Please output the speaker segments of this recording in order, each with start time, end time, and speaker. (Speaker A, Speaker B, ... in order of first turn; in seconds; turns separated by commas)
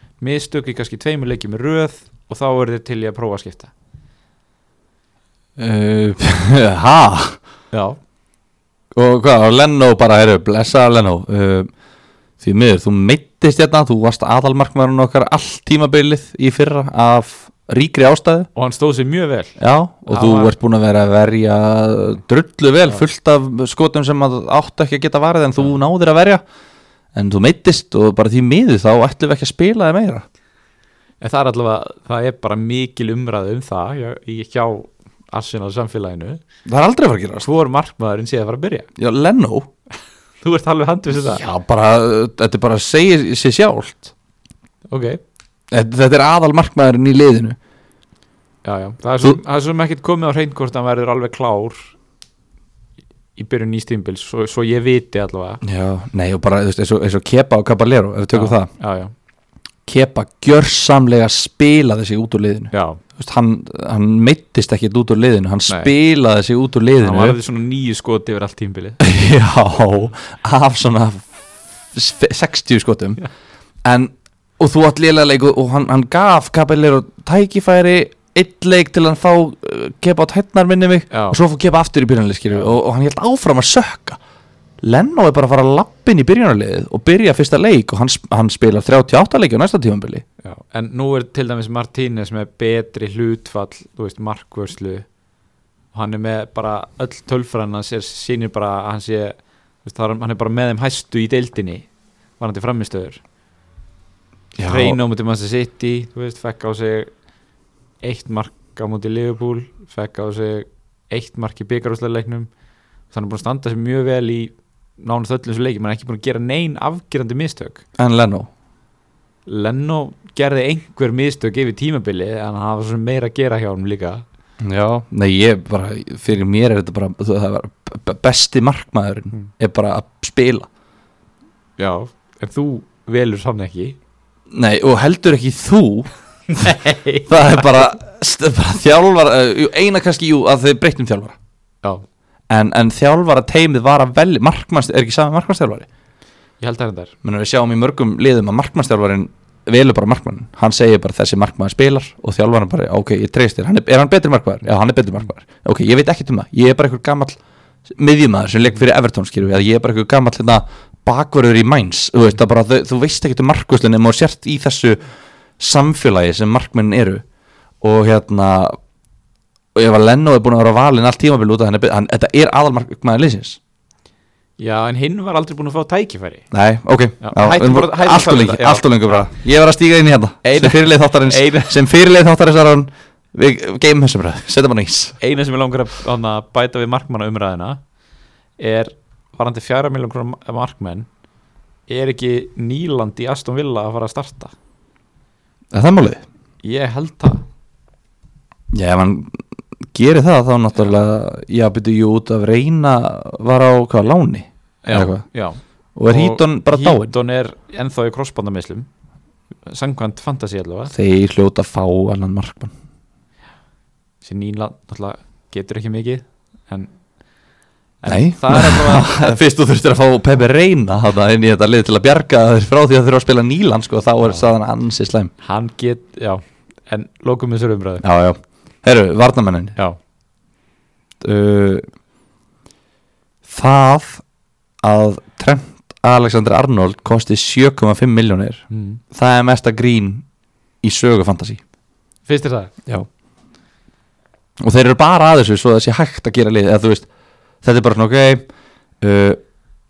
Speaker A: 0.2-3.7, Speaker B: 5.6-7.4, Speaker A: 7.7-8.0, Speaker B: 8.9-11.7, Speaker B: 12.4-18.5, Speaker A: 18.6-19.6, Speaker B: 19.6-26.4, Speaker A: 20.1-20.6, Speaker B: 27.1-30.2, Speaker A: 31.2-36.4, Speaker B: 36.7-37.5, Speaker A: 37.4-38.9, Speaker B: 39.0-39.7, Speaker A: 40.4-41.5, Speaker B: 41.2-44.1, Speaker A: 44.9-45.2, Speaker B: 45.7-47.6, Speaker A: 48.6-51.9, Speaker A: 53.4-55.6, Speaker B: 55.6-58.7, Speaker A: 58.3-59.1, Speaker B: 59.9-67.4, Speaker A: 62.7-63.0, Speaker A: 65.7-65.9, Speaker A: 67.0-69.0, Speaker B: 69.0-71.3, Speaker B: 71.9-73.2, Speaker B: 73.8-84.2, Speaker A: 81.1-81.4, Speaker B: 84.8-90.2, Speaker A: 90.4-95.1, Speaker A: 95.9-101.9, Speaker A: 102.4-103.2, Speaker B: 104.6-105.0, Speaker A: 104.6-107.1, Speaker A: 108.0-112.5, Speaker A: 113.1-117.8, Speaker B: 118.0-118.5, Speaker A: 119.5-124.2, Speaker B: 124.6-130.7, Speaker A: 131.8-134.0, Speaker B: 134.5-141.4, Speaker A: 136.5-137.8, Speaker B: 142.5-145.9, Speaker A: 146.6-147.1, Speaker B: 147.2-157.4, Speaker B: 157.9-165.0, Speaker B: 165.6-167.2, Speaker B: 167.8-168.8, Speaker B: 169.8-173.6, Speaker A: 174.6-176.5, Speaker B: 176.5-185.2, Speaker A: 177.2-179.3, Speaker A: 180.4-181.8, Speaker A: 185.2-187.8, Speaker A: 188.6-191.1, Speaker A: 191.9-194.5, Speaker B: 195.7-196.2, Speaker A: 196.6-197.4, Speaker B: 198.7-199.4, Speaker B: 199.9-205.2, Speaker A: 204.8-208.9, Speaker B: 206.0-207.1, Speaker A: 209.7-210.9, Speaker B: 210.9-212.7, Speaker A: 214.2-216.9, Speaker A: 218.0-219.4, Speaker B: 218.1-225.3, Speaker A: 225.4-228.0, Speaker B: 228.0-229.8, Speaker B: 231.2-231.8, Speaker B: 233.5-234.2, Speaker B: 234.8-240.2, Speaker A: 238.7-239.0, Speaker B: 240.8-241.6, Speaker A: 242.3-242.7, Speaker B: 244.6-247.1, Speaker B: 247.6-248.5, Speaker B: 249.0-249.4